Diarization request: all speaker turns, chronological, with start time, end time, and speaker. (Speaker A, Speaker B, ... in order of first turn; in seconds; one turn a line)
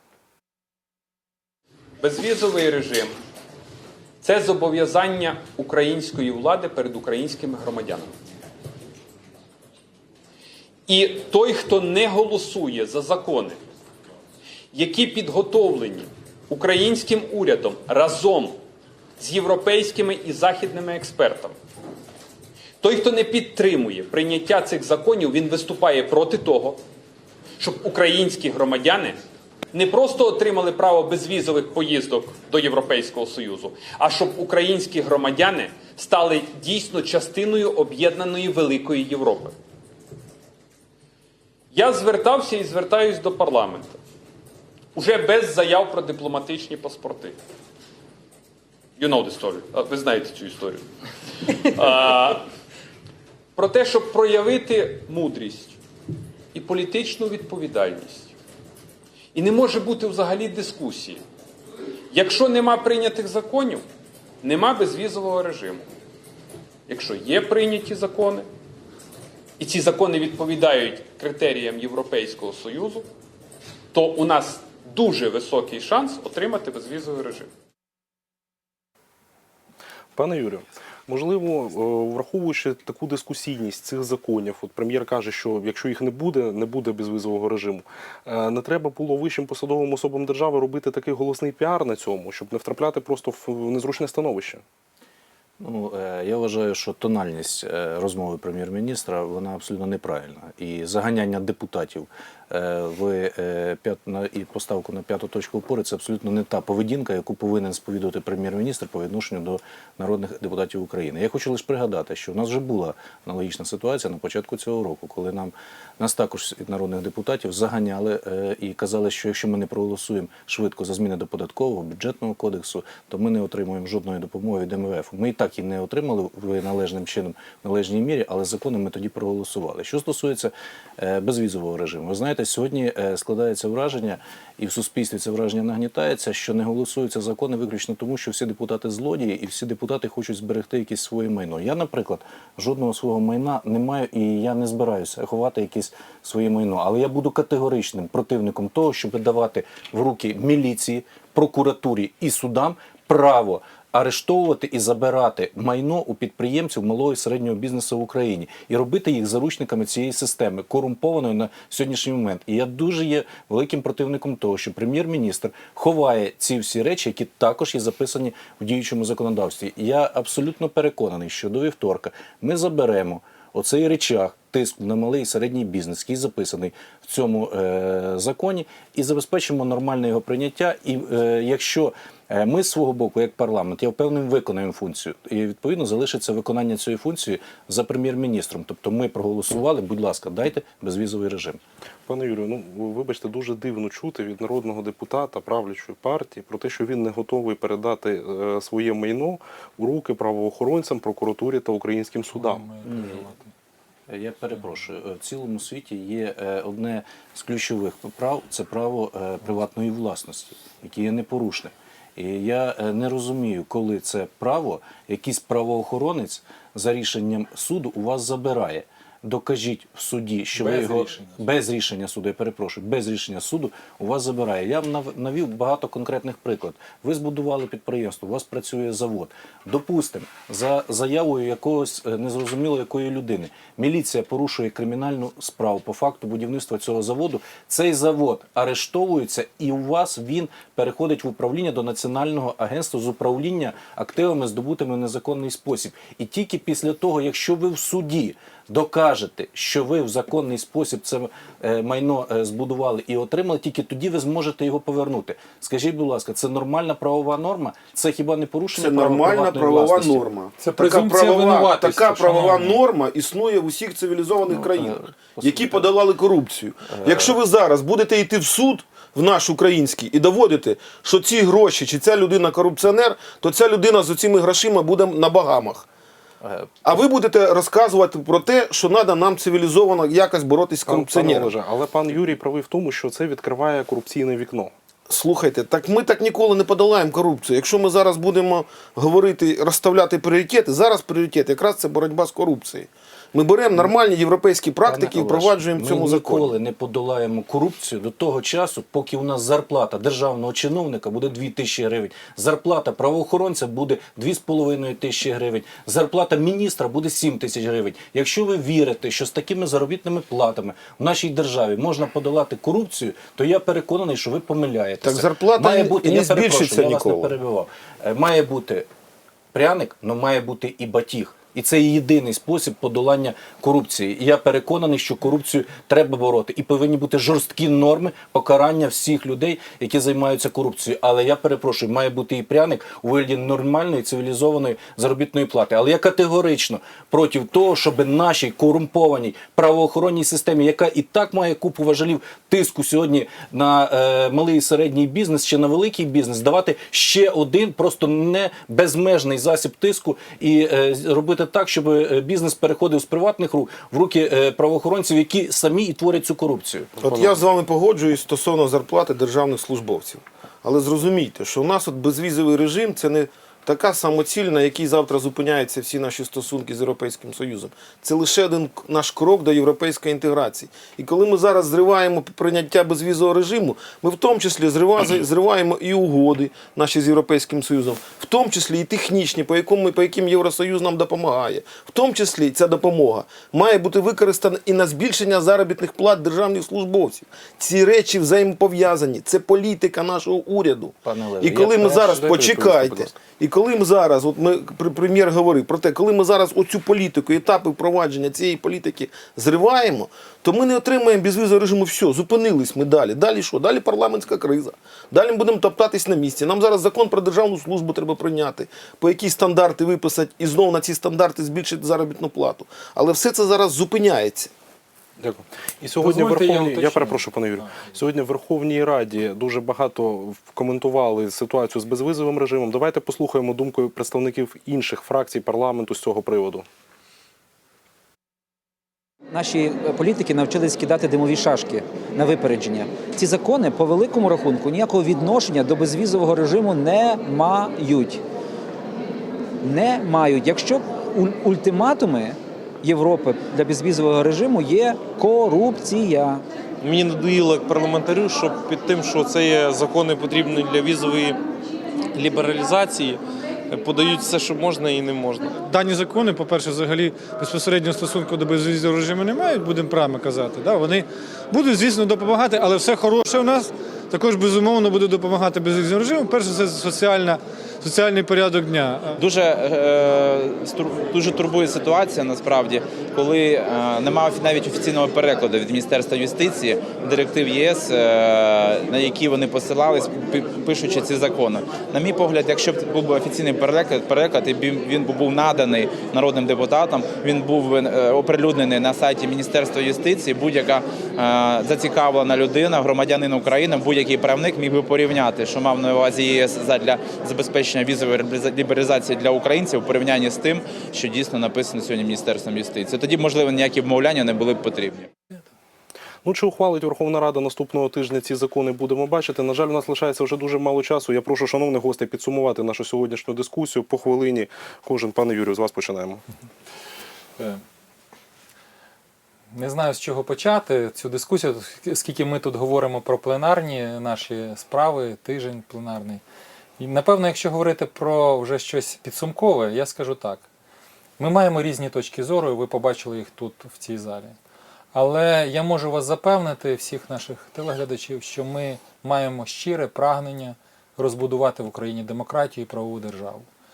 Speaker A: 2.0-3.1
Speaker A: 4.2-8.1
Speaker A: 10.9-13.6
Speaker A: 14.7-18.6
Speaker A: 19.2-21.5
Speaker A: 22.8-26.8
Speaker A: 27.6-29.2
Speaker A: 29.7-39.5
Speaker A: 41.7-44.0
Speaker A: 44.9-47.4
Speaker A: 49.0-50.8
Speaker A: 51.7-52.4
Speaker A: 53.5-55.8
Speaker A: 56.5-58.3
Speaker A: 59.3-61.2
Speaker A: 62.1-63.8
Speaker A: 64.4-65.9
Speaker A: 66.9-68.5
Speaker A: 69.6-73.0
Speaker A: 73.9-77.5
Speaker B: 80.1-94.6
Speaker C: 95.6-191.6
Speaker B: 192.1-202.7
Speaker D: 202.3-203.5
Speaker C: 202.8-203.2
Speaker C: 204.1-260.2
Speaker E: 258.7-275.9
Speaker D: 260.6-262.4
Speaker C: 264.5-265.9
Speaker C: 266.9-267.4
Speaker C: 276.4-276.7
Speaker E: 276.8-281.5
Speaker B: 280.9-284.7
Speaker E: 285.1-296.5
Speaker C: 294.8-318.9
Speaker E: 315.0-317.3
Speaker C: 319.5-357.4
Speaker E: 357.0-414.5
Speaker C: 391.0-393.0
Speaker B: 415.2-426.6
Speaker D: 416.0-417.3
Speaker F: 429.3-438.2
Speaker F: 439.6-446.4
Speaker G: 446.8-451.4
Speaker G: 452.1-453.2
Speaker G: 453.7-455.5
Speaker H: 455.5-469.2
Speaker I: 469.2-505.1
Speaker B: 506.2-516.2
Speaker D: 519.5-526.2
Speaker D: 526.8-530.5
Speaker D: 531.2-534.4
Speaker D: 534.9-543.5